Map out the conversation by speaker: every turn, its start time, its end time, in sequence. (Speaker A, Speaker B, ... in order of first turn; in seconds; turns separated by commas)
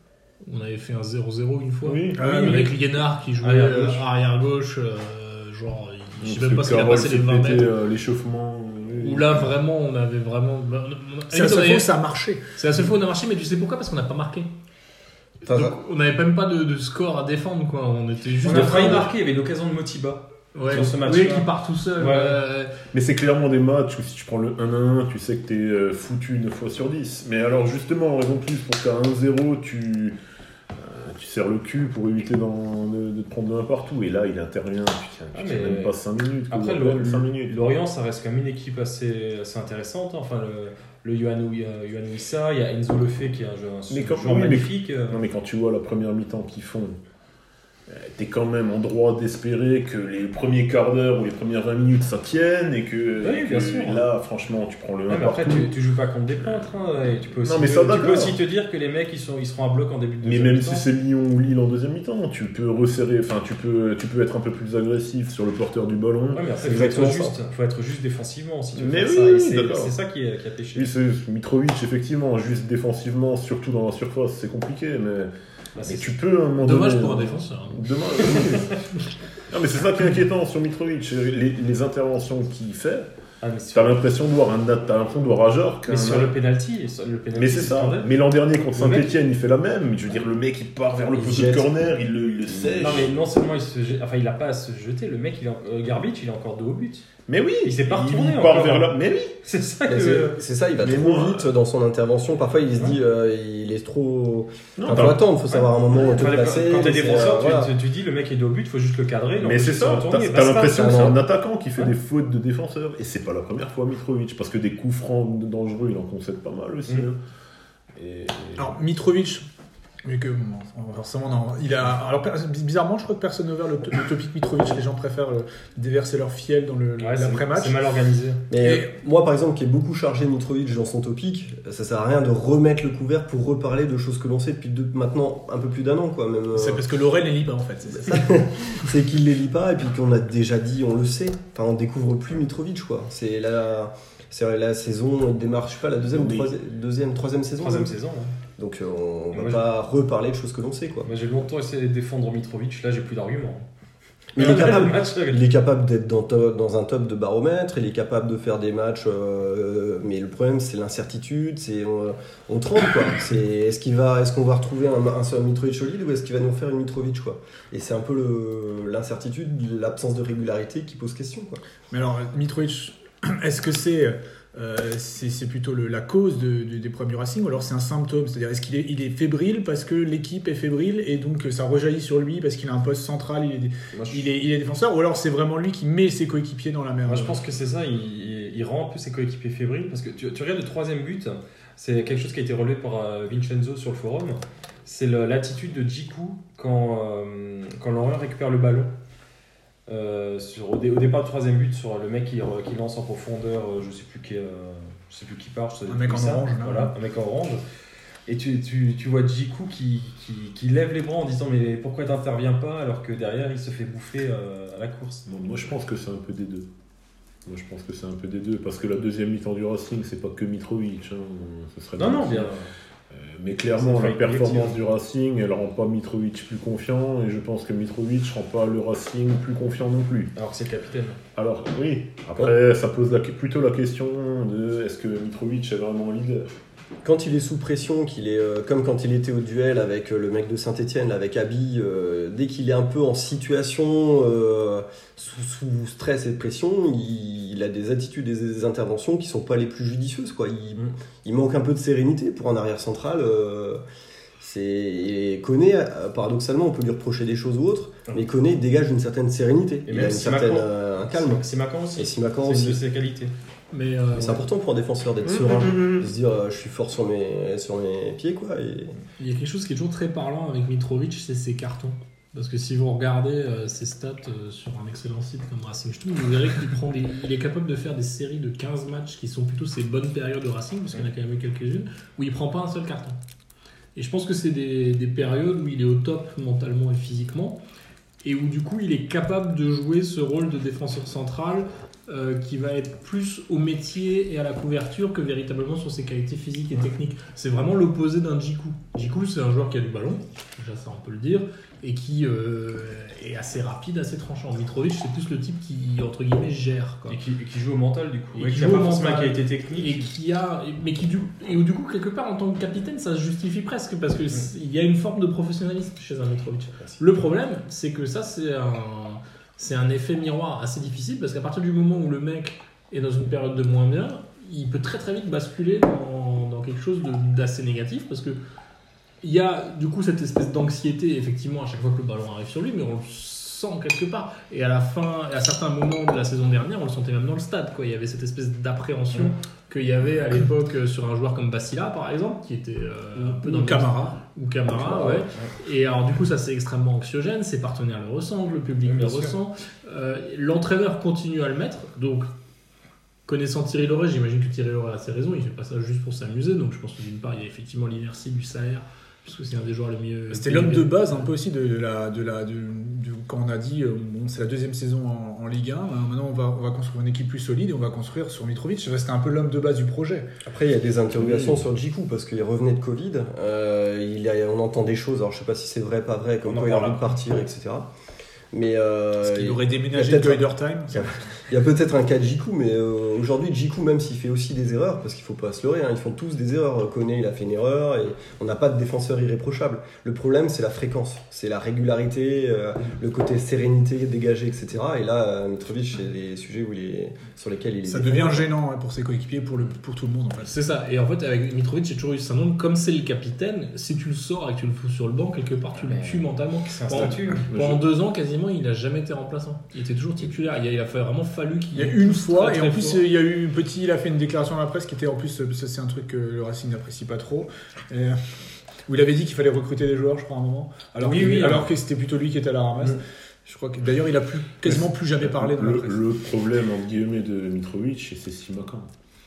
Speaker A: 0.4-7.7, Speaker B: 1.8-2.4, Speaker C: 2.2-2.7, Speaker D: 3.4-4.0, Speaker B: 6.2-9.5, Speaker A: 9.0-12.0, Speaker C: 11.3-12.4, Speaker A: 12.5-14.5, Speaker E: 15.4-15.8, Speaker A: 15.5-19.1, Speaker D: 18.4-22.4, Speaker A: 20.5-22.7, Speaker B: 22.9-30.2, Speaker B: 30.8-37.7, Speaker D: 35.3-36.0, Speaker D: 36.5-45.2, Speaker B: 43.9-47.0, Speaker B: 47.9-55.7, Speaker D: 53.2-54.1, Speaker D: 55.1-60.9, Speaker B: 57.4-58.4, Speaker B: 60.2-66.5, Speaker D: 66.3-70.9, Speaker E: 66.6-67.4, Speaker B: 68.8-70.0, Speaker B: 70.8-75.3, Speaker D: 75.8-76.2, Speaker B: 75.8-78.8, Speaker A: 76.6-77.9, Speaker D: 78.4-78.7, Speaker B: 79.5-83.1, Speaker D: 83.4-84.1, Speaker B: 83.7-86.3, Speaker D: 85.9-88.1, Speaker B: 87.3-93.2, Speaker D: 88.8-89.2, Speaker E: 91.1-91.7, Speaker E: 92.5-92.8, Speaker D: 92.8-97.1, Speaker B: 97.3-99.4, Speaker D: 97.6-100.4, Speaker E: 99.9-107.7, Speaker B: 100.8-101.5, Speaker B: 104.8-105.6, Speaker D: 105.5-111.2, Speaker B: 109.4-117.2, Speaker E: 110.7-111.2, Speaker B: 118.0-118.8, Speaker C: 118.6-119.5, Speaker C: 120.0-127.8, Speaker D: 127.0-128.5, Speaker E: 128.5-136.8, Speaker C: 128.6-128.9, Speaker C: 136.6-138.5, Speaker E: 138.0-147.9, Speaker B: 146.1-146.5, Speaker D: 147.6-148.4, Speaker E: 148.6-151.1, Speaker D: 149.3-149.7, Speaker D: 151.1-153.7, Speaker E: 154.3-171.6, Speaker D: 154.4-155.4, Speaker C: 171.9-187.4, Speaker D: 183.9-184.3, Speaker D: 187.1-198.9, Speaker D: 199.9-207.6, Speaker C: 205.9-206.9, Speaker D: 208.3-215.3, Speaker B: 215.3-216.7, Speaker B: 217.5-222.5, Speaker D: 222.0-222.7, Speaker B: 223.1-230.3, Speaker D: 223.8-224.8, Speaker D: 230.4-231.2, Speaker B: 231.4-236.6, Speaker E: 237.0-253.8, Speaker E: 254.4-261.4, Speaker D: 259.9-263.3, Speaker E: 262.0-262.8, Speaker A: 263.7-264.4, Speaker E: 264.1-269.0, Speaker B: 265.5-266.1, Speaker A: 269.2-283.2, Speaker A: 283.9-287.6, Speaker A: 288.2-307.2, Speaker D: 307.1-310.1, Speaker A: 308.4-328.4, Speaker C: 308.6-309.1, Speaker A: 329.2-352.3, Speaker C: 343.2-344.2, Speaker D: 344.7-345.5, Speaker D: 348.9-349.4, Speaker A: 353.3-361.2, Speaker C: 360.3-370.3, Speaker E: 370.5-377.9, Speaker B: 371.2-371.5, Speaker D: 376.4-377.4, Speaker E: 378.5-398.5, Speaker C: 379.2-381.1, Speaker C: 397.9-400.5, Speaker A: 400.4-413.0, Speaker D: 405.8-407.5, Speaker B: 407.4-407.8, Speaker C: 411.8-418.2, Speaker C: 418.9-426.0, Speaker D: 421.0-421.8, Speaker B: 424.7-428.9